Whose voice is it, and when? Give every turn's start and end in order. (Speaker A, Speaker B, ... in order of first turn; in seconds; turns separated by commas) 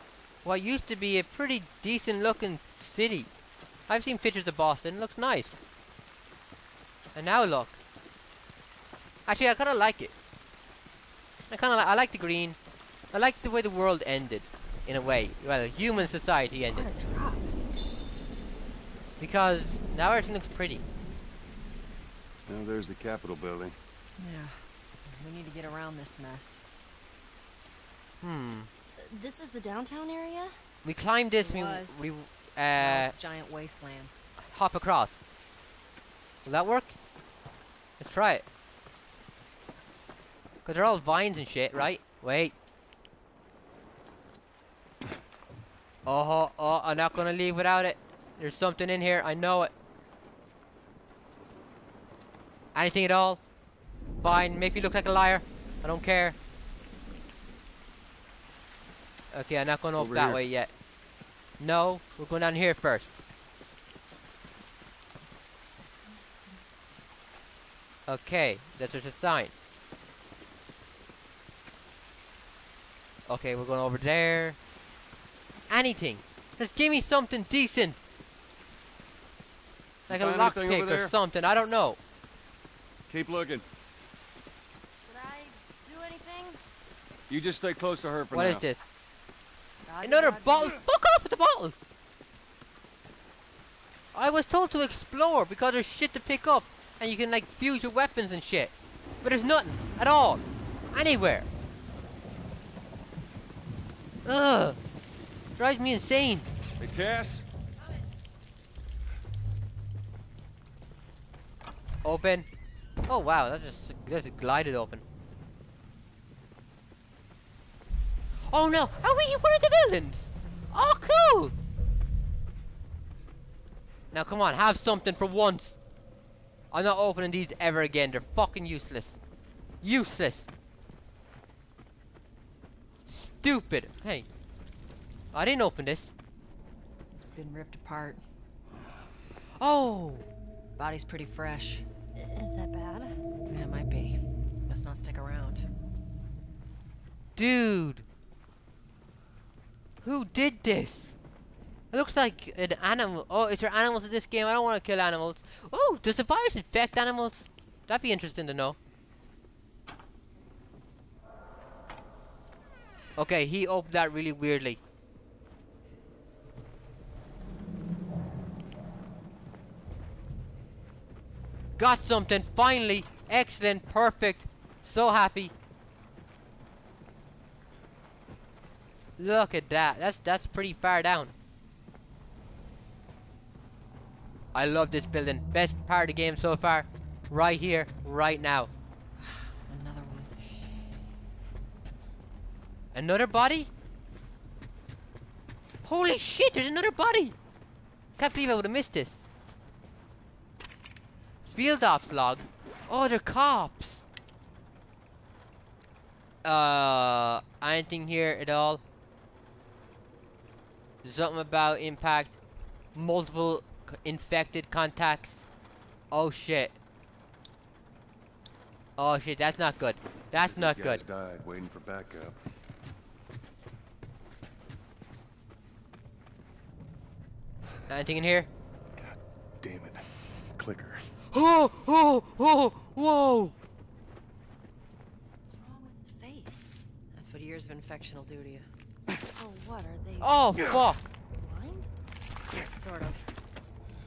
Speaker A: 0.4-3.3, Speaker A: 3.9-5.6, Speaker A: 7.1-7.8, Speaker A: 9.2-10.1, Speaker A: 11.5-12.6, Speaker A: 13.1-16.9, Speaker B: 16.6-17.5, Speaker A: 19.2-20.8, Speaker C: 22.5-23.8, Speaker B: 24.2-26.6, Speaker A: 28.2-28.7, Speaker D: 29.0-30.6, Speaker A: 30.8-33.1, Speaker B: 31.4-32.0, Speaker B: 32.8-34.1, Speaker A: 34.4-35.2, Speaker A: 36.4-36.9, Speaker A: 38.0-38.4, Speaker A: 40.6-42.5, Speaker A: 46.0-49.7, Speaker A: 52.7-53.4, Speaker A: 54.2-56.4, Speaker A: 59.3-60.7, Speaker C: 60.0-60.4, Speaker A: 61.6-63.1, Speaker A: 68.1-69.5, Speaker A: 73.3-74.6, Speaker A: 75.7-78.0, Speaker C: 80.1-81.1, Speaker A: 80.1-82.0, Speaker C: 83.1-83.6, Speaker D: 85.1-86.6, Speaker C: 87.3-88.7, Speaker A: 88.3-88.9, Speaker D: 89.8-90.8, Speaker A: 90.0-91.8, Speaker A: 94.1-101.5, Speaker A: 104.2-104.8, Speaker A: 105.6-106.5, Speaker C: 106.8-107.4, Speaker A: 112.0-112.5, Speaker A: 113.1-115.0, Speaker A: 118.5-121.5, Speaker A: 124.1-125.8, Speaker A: 126.7-129.2, Speaker A: 129.8-130.5, Speaker A: 133.1-134.2, Speaker A: 135.3-136.1, Speaker B: 137.1-138.2, Speaker A: 139.6-140.3, Speaker B: 140.8-141.8, Speaker D: 142.2-143.2, Speaker B: 143.5-145.6, Speaker A: 147.3-148.1, Speaker A: 150.0-151.1, Speaker A: 151.9-158.8, Speaker A: 163.2-164.8, Speaker A: 171.8-175.5, Speaker A: 179.2-181.3, Speaker A: 184.5-188.7, Speaker B: 189.2-190.6, Speaker A: 192.9-193.7, Speaker A: 195.8-197.3, Speaker A: 198.2-199.2, Speaker A: 201.4-204.0, Speaker A: 206.4-208.8, Speaker A: 211.0-212.4, Speaker A: 212.9-215.4, Speaker A: 216.1-216.8, Speaker A: 219.0-221.0, Speaker C: 220.3-222.4, Speaker A: 227.9-228.5, Speaker C: 228.9-231.1, Speaker A: 231.3-233.5, Speaker D: 235.6-236.9, Speaker B: 237.1-238.7, Speaker D: 239.0-240.8, Speaker A: 240.2-241.0, Speaker D: 241.3-241.9, Speaker B: 242.7-243.3